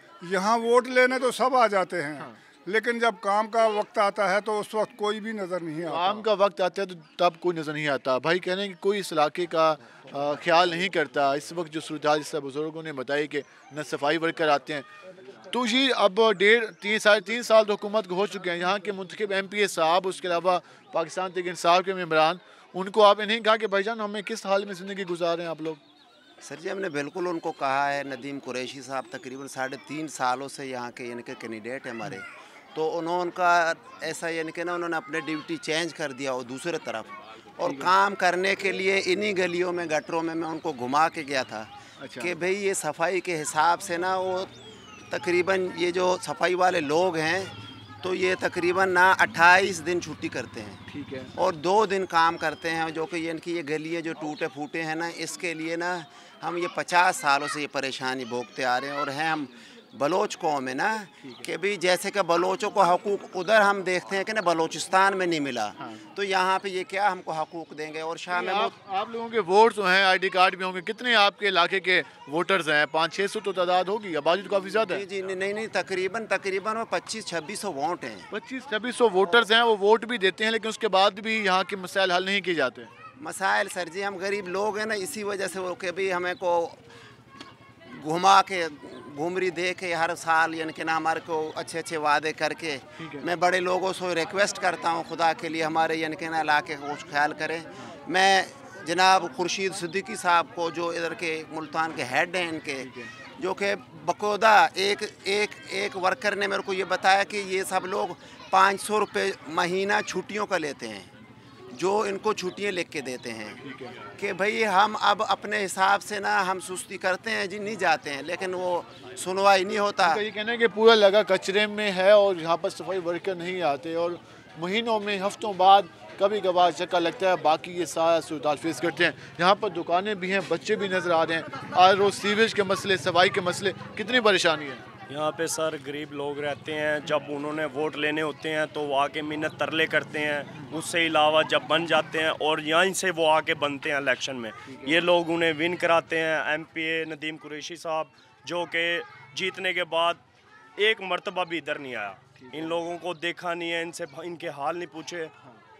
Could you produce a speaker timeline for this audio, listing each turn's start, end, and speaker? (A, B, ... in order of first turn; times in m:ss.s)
0:00.2-0:06.2 A
0:05.8-0:14.9 B
0:15.5-0:25.8 B
0:26.4-0:44.5 C
0:37.6-0:37.9 B
0:42.0-0:42.3 B
0:45.1-0:50.8 C
0:50.9-0:51.3 B
0:51.4-1:08.7 C
1:08.3-1:15.0 B
1:14.8-1:18.3 C
1:18.3-1:22.9 B
1:23.2-1:26.8 C
1:27.9-1:51.1 C
1:33.0-1:33.3 B
1:42.8-1:43.1 B
1:51.7-1:53.6 C
1:53.6-1:54.0 B
1:54.2-2:00.2 C
2:00.0-2:14.8 B
2:15.1-2:30.2 D
2:24.7-2:25.0 B
2:30.8-2:35.3 D
2:32.4-2:32.8 B